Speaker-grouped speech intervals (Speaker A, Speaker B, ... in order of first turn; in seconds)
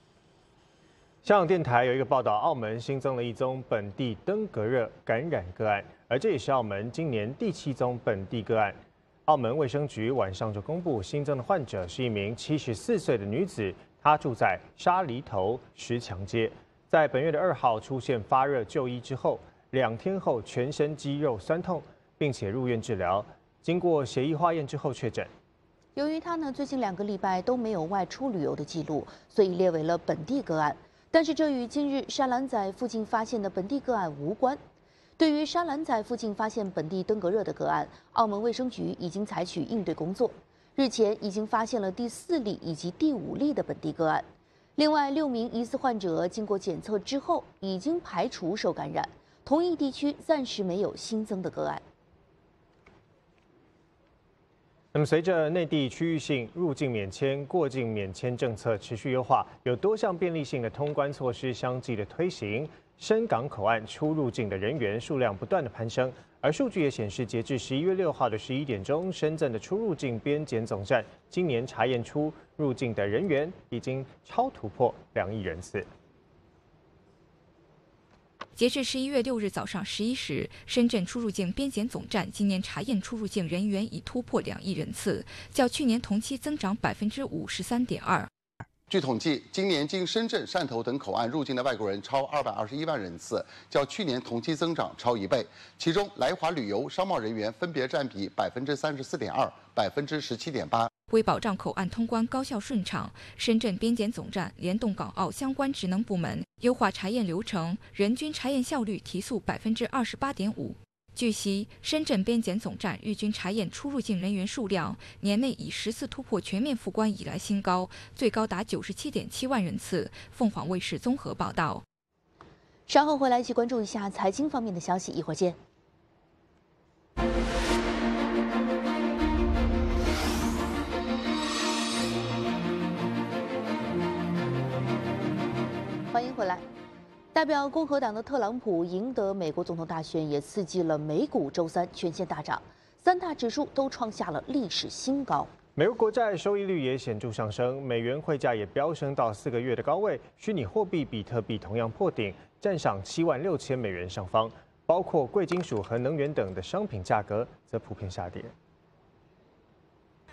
Speaker A: 1.2-25.3, 54.9-75.9, 145.8-158.5
Speaker B: 26.0-34.6, 35.2-51.8, 122.9-125.6, 136.1-136.7, 137.3-145.5
Speaker C: 78.6-88.3, 101.1-121.8
Speaker D: 88.9-100.9